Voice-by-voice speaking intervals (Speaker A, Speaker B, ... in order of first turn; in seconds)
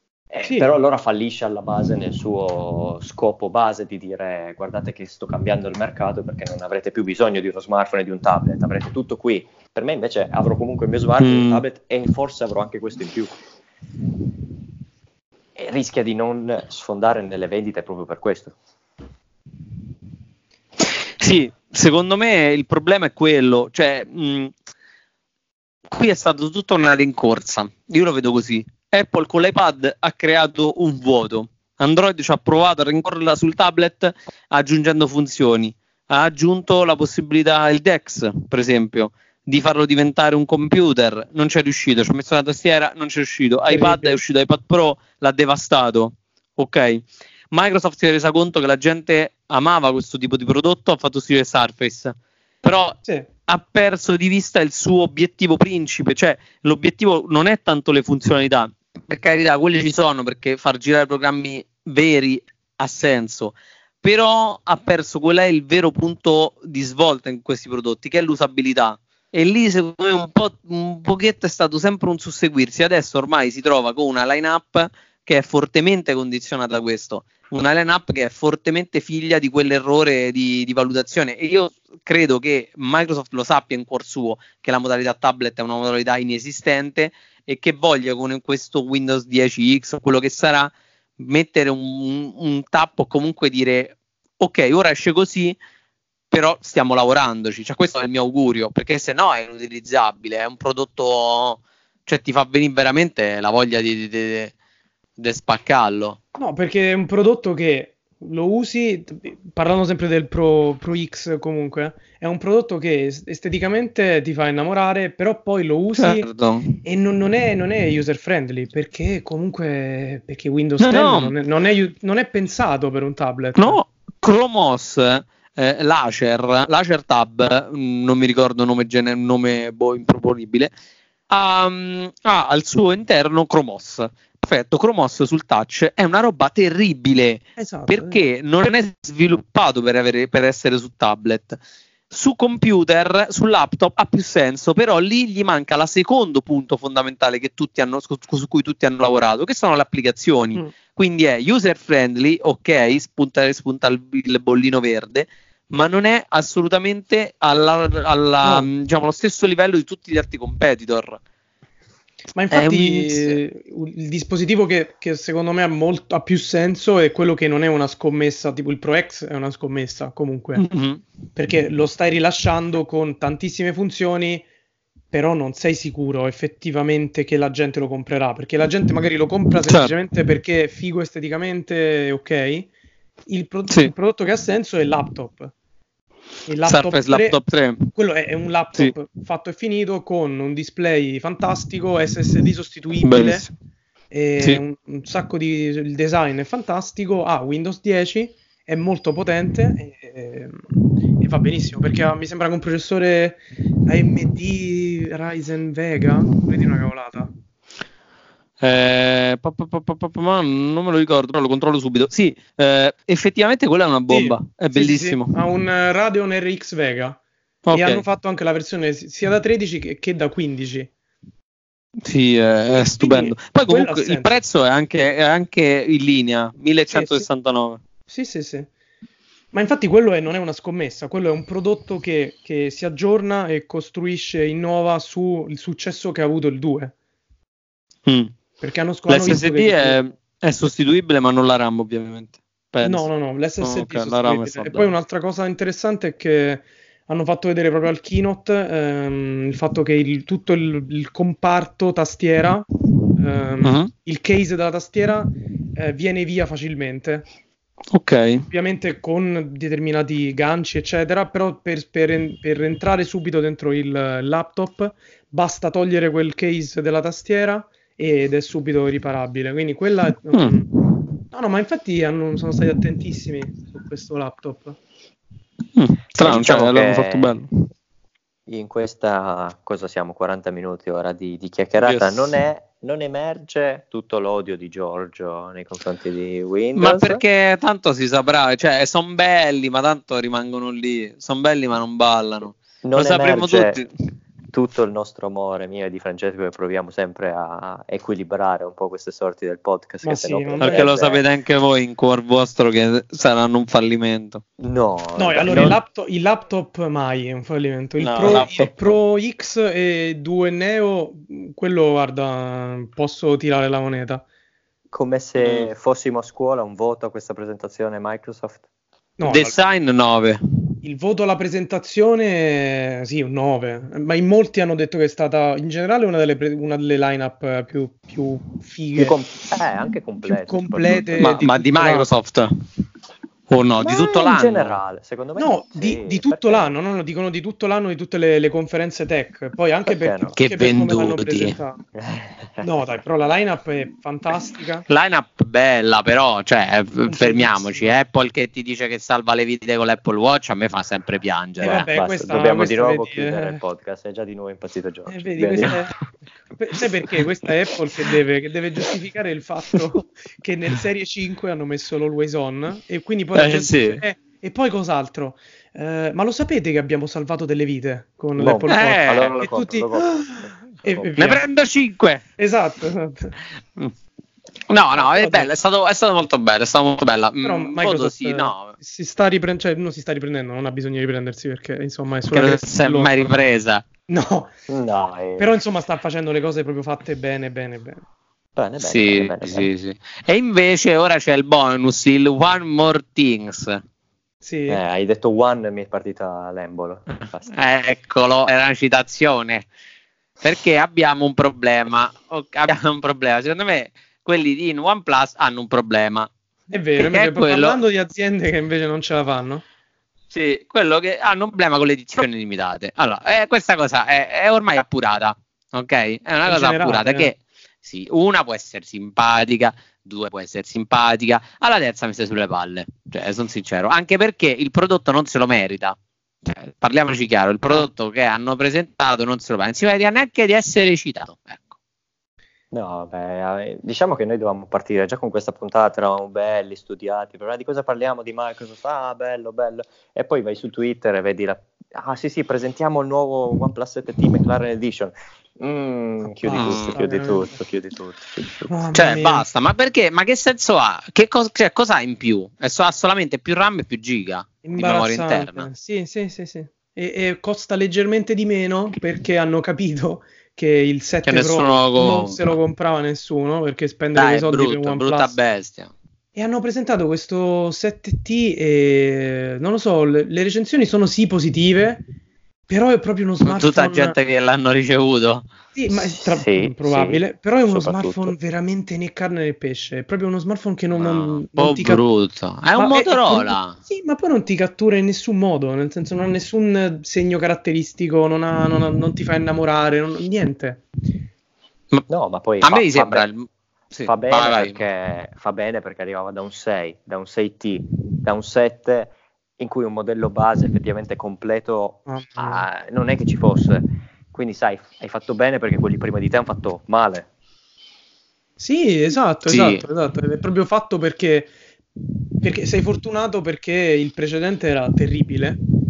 Speaker A: 0.3-13.3, 15.6-18.6, 276.2-277.4, 278.5-287.2, 292.8-293.8, 294.5-301.2, 304.6-305.8, 308.2-308.5, 314.9-318.6, 329.0-331.4, 333.8-336.7, 339.9-340.3, 341.9-342.7, 351.7-355.8, 368.4-371.1, 384.7-385.5, 388.6-389.7, 394.7-397.5, 432.7-448.8, 476.2-478.4, 492.1-493.3, 494.1-507.3
Speaker B: 0.4-0.7, 43.7-44.2, 106.3-116.3, 116.8-123.8, 137.6-138.2, 158.4-158.7, 162.3-170.6, 171.4-174.5, 175.1-182.7, 183.3-185.5, 186.5-187.4, 187.9-193.4, 194.1-207.3, 214.1-217.2, 217.7-220.9, 222.8-224.3, 226.9-227.3, 228.1-228.7, 229.5-236.9, 238.6-240.0, 242.8-257.3, 258.5-270.7, 271.3-274.8, 300.0-300.9, 305.2-314.2, 319.2-319.6, 320.8-329.2, 330.2-332.1, 335.4-341.8, 342.6-344.9, 347.1-347.9, 351.6-353.6, 355.1-356.0, 356.5-371.4, 372.4-373.4, 375.0-375.5, 377.4-383.1, 384.1-384.5, 385.4-388.0, 394.4-394.8, 406.7-409.6, 416.5-417.3, 446.2-447.6, 448.7-449.5, 454.6-465.4, 466.4-472.0, 472.7-474.2, 475.8-482.0, 482.8-490.9, 502.1-502.7, 508.6-511.5, 512.4-515.6
Speaker C: 11.2-11.6, 20.8-24.5, 25.9-95.6, 96.3-104.5, 105.2-106.2, 116.0-116.8, 120.8-121.3, 123.6-130.7, 131.3-141.6, 142.1-161.2, 162.5-163.4, 170.6-171.0, 179.7-179.9, 186.7-187.9, 193.0-193.5, 208.6-215.3, 217.7-218.0, 222.0-227.8, 238.1-238.3, 239.1-243.1, 243.6-244.9, 253.6-253.9, 257.9-258.5, 270.3-271.0, 275.8-277.5, 281.8-282.3, 286.8-293.9, 300.6-304.4, 308.0-308.7, 315.4-315.7, 319.3-320.4, 331.2-332.5, 333.5-334.8, 340.4-341.6, 344.9-351.9, 363.3-364.0, 368.7-369.4, 371.2-372.2, 374.7-378.8, 382.3-383.8, 388.8-393.8, 397.5-399.7, 400.4-406.3, 407.0-407.8, 410.3-431.8, 446.5-447.0, 448.9-455.7, 461.2-462.6, 464.1-465.9, 473.4-475.5, 480.9-483.8, 492.6-494.8, 509.5-509.8